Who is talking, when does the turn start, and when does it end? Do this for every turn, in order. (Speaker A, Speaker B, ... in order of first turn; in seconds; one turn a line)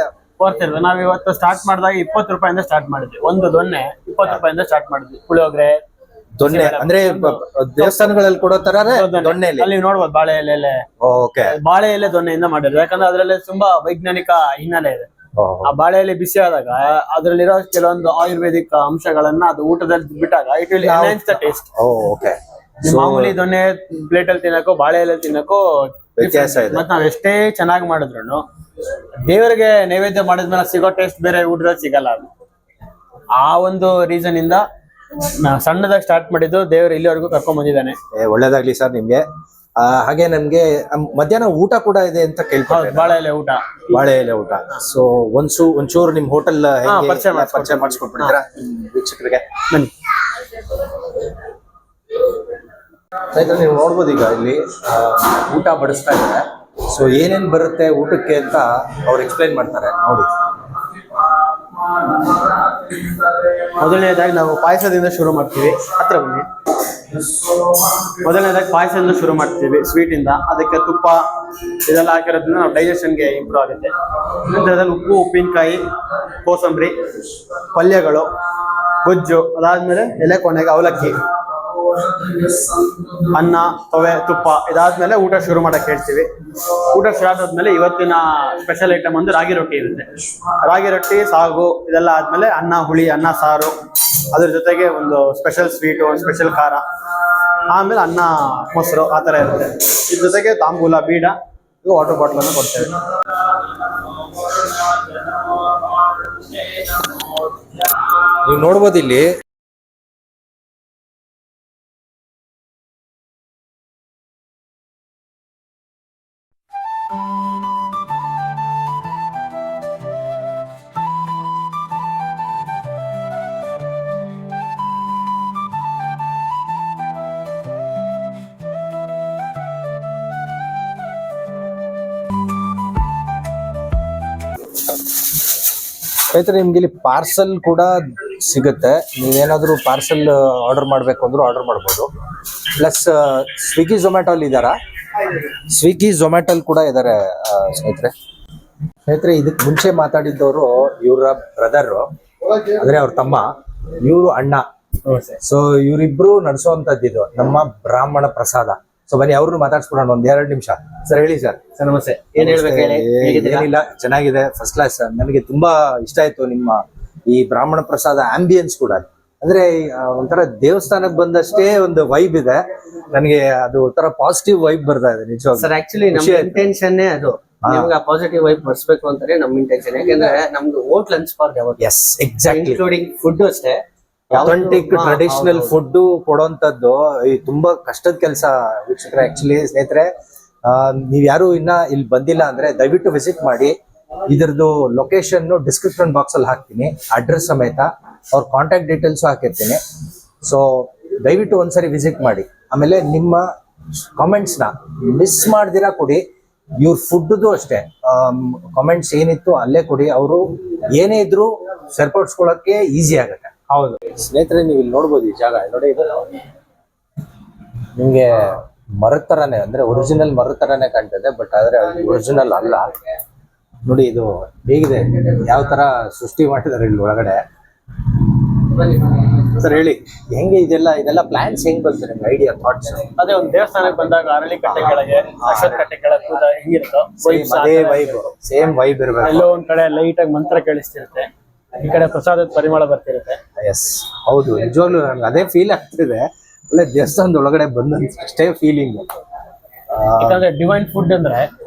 Speaker A: 0.4-5.8
Speaker B: 6.4-9.7
Speaker A: 6.4-8.2
Speaker A: 8.8-10.8
Speaker B: 11.0-11.6
Speaker A: 11.5-15.1
Speaker B: 15.3-15.7
Speaker A: 15.6-21.7
Speaker B: 20.8-23.3
Speaker A: 22.8-28.4
Speaker B: 26.2-26.8
Speaker A: 29.2-32.3
Speaker A: 33.4-34.6
Speaker A: 35.1-38.0
Speaker B: 38.1-39.2
Speaker B: 39.8-43.1
Speaker A: 42.7-44.0
Speaker B: 43.9-49.5
Speaker A: 46.9-48.4
Speaker B: 53.3-60.3
Speaker A: 61.7-77.0
Speaker A: 77.5-93.7
Speaker A: 94.3-107.1
Speaker B: 108.2-109.3
Speaker B: 136.3-142.1
Speaker B: 142.7-148.1
Speaker B: 149.1-153.5
Speaker B: 154.0-154.6
Speaker A: 155.1-155.3
Speaker B: 155.4-161.6
Speaker C: 161.8-163.7
Speaker B: 162.4-176.7
Speaker C: 175.6-181.8
Speaker B: 177.6-177.9
Speaker B: 181.8-182.8
Speaker C: 182.5-185.7
Speaker B: 184.3-190.1
Speaker B: 190.6-193.7
Speaker B: 194.3-199.8
Speaker B: 200.4-203.5
Speaker B: 204.1-206.2
Speaker B: 206.8-216.3
Speaker B: 217.9-222.9
Speaker B: 223.8-227.4
Speaker B: 228.8-233.1
Speaker A: 233.2-238.3
Speaker B: 235.4-235.8
Speaker B: 237.2-239.5
Speaker A: 239.2-243.4
Speaker B: 243.6-249.1
Speaker B: 249.9-250.4
Speaker A: 250.2-251.5